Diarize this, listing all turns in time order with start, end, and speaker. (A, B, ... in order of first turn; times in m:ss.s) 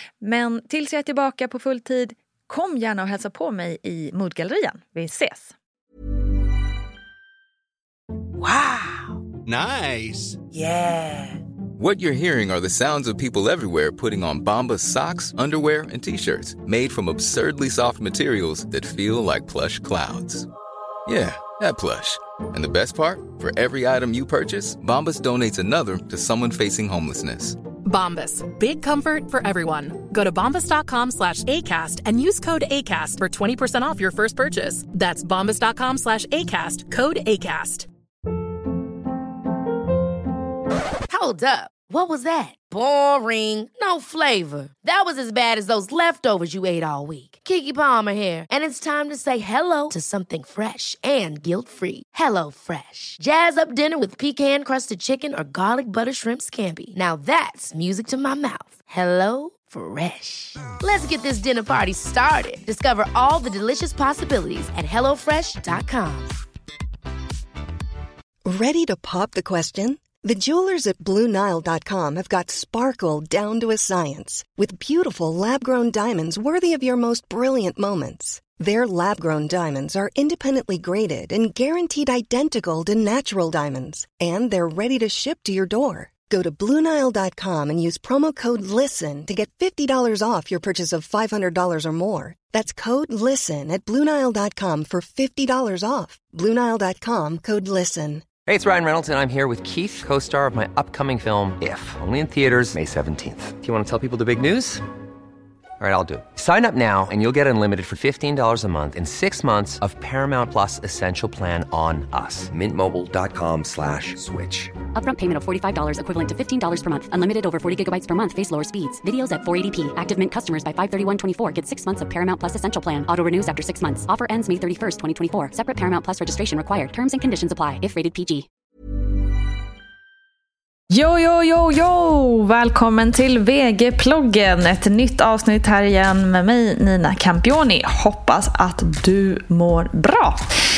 0:00.2-0:05.5 A
0:08.4-0:09.1 B
0:10.8-0:11.2 B
0:11.8-0:20.5 C
0:21.1-0:27.6 C
0:27.8-0:37.8 D
0:41.1-1:06.3 B
1:08.4-1:38.4 E
1:38.4-1:44.8 F
1:45.8-1:54.6 F
1:55.0-2:08.4 G
2:10.9-2:20.4 A